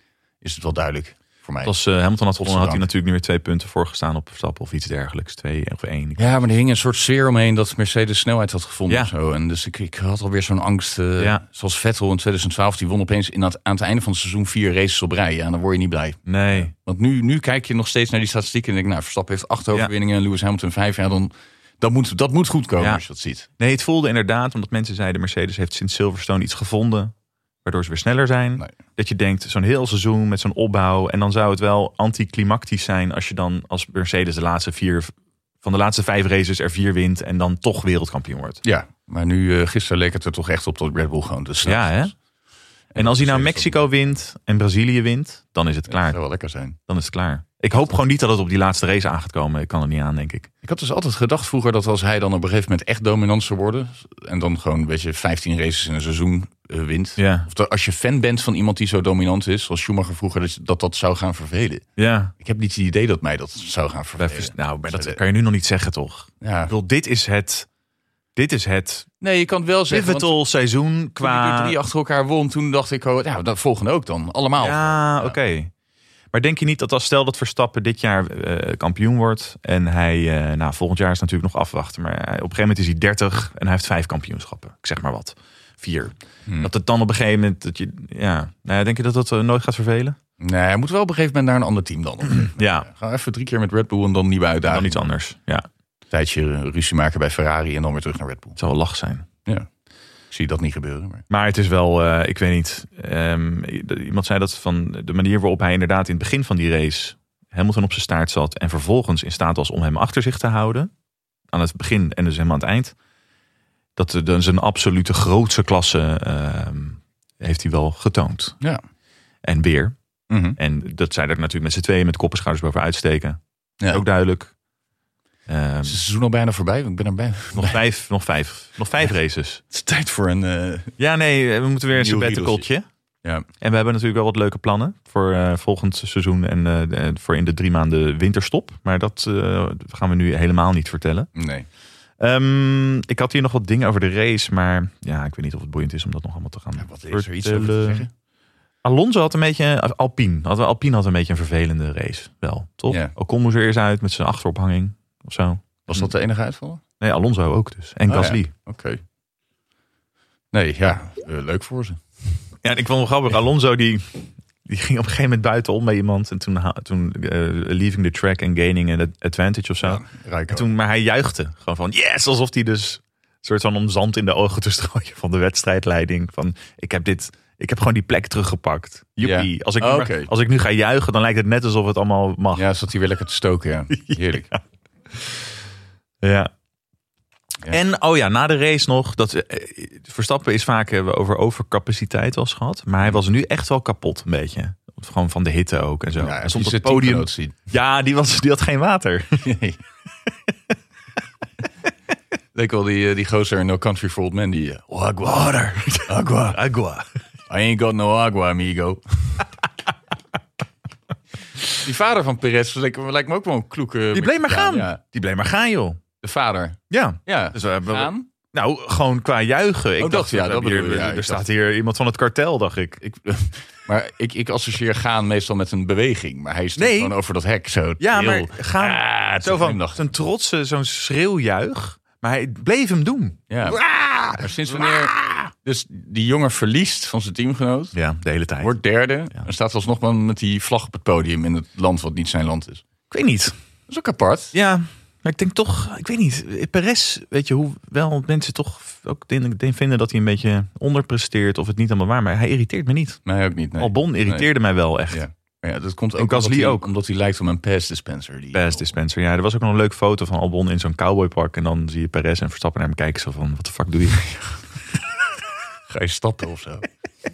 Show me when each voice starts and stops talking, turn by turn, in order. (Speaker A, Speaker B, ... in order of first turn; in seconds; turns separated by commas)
Speaker A: 0.4-1.7, Speaker B: 1.6-6.3, Speaker A: 2.4-2.9, Speaker A: 6.2-23.5, Speaker B: 16.2-16.7, Speaker B: 23.6-27.1, Speaker B: 27.6-38.6, Speaker A: 38.6-42.1, Speaker B: 41.6-42.1, Speaker A: 42.9-43.9, Speaker B: 43.0-46.2, Speaker A: 45.9-46.8, Speaker B: 46.9-50.5, Speaker A: 50.6-61.8, Speaker B: 57.2-57.5, Speaker B: 62.0-62.3, Speaker A: 62.4-65.2, Speaker B: 64.2-67.7, Speaker A: 66.4-66.7, Speaker B: 68.3-69.1, Speaker A: 69.2-70.3, Speaker B: 69.9-71.8, Speaker A: 71.2-75.4, Speaker B: 74.6-75.7, Speaker B: 76.3-90.2, Speaker A: 90.4-95.0, Speaker B: 92.3-92.9, Speaker B: 94.7-95.7, Speaker A: 96.1-98.6, Speaker B: 98.6-99.2, Speaker A: 100.3-101.2, Speaker B: 101.3-110.9, Speaker B: 111.5-112.9, Speaker B: 114.0-118.6, Speaker B: 119.4-120.0, Speaker A: 120.3-120.6, Speaker B: 120.5-124.5, Speaker B: 125.5-126.0, Speaker A: 125.8-127.8, Speaker B: 127.5-129.6, Speaker A: 129.7-130.9, Speaker B: 131.0-132.8, Speaker A: 131.9-132.7, Speaker B: 133.6-141.3, Speaker A: 141.3-141.7, Speaker B: 142.2-148.1, Speaker A: 146.8-148.1, Speaker B: 148.8-156.1, Speaker A: 155.9-156.8, Speaker B: 157.0-158.5, Speaker A: 158.1-159.0, Speaker A: 160.5-162.0, Speaker B: 162.6-182.7, Speaker A: 169.8-170.7, Speaker A: 179.2-180.3, Speaker A: 182.5-184.5, Speaker B: 184.1-184.6, Speaker B: 186.2-186.5, Speaker B: 187.7-199.4, Speaker A: 196.2-197.6, Speaker A: 199.4-199.8, Speaker A: 202.5-206.6, Speaker B: 205.3-207.1, Speaker A: 207.5-209.4, Speaker A: 211.8-215.0, Speaker B: 214.1-216.0, Speaker A: 216.2-218.3, Speaker B: 216.9-223.0, Speaker A: 220.0-221.4, Speaker A: 223.0-230.0, Speaker B: 226.8-227.1, Speaker B: 228.0-235.5, Speaker A: 233.5-237.9, Speaker B: 237.9-238.7, Speaker A: 238.6-242.8, Speaker B: 243.1-243.5, Speaker A: 243.9-244.5, Speaker B: 244.5-253.2, Speaker A: 253.2-254.5, Speaker B: 253.8-255.2, Speaker A: 255.1-258.9, Speaker B: 256.2-256.9, Speaker B: 258.5-264.3, Speaker A: 265.9-266.9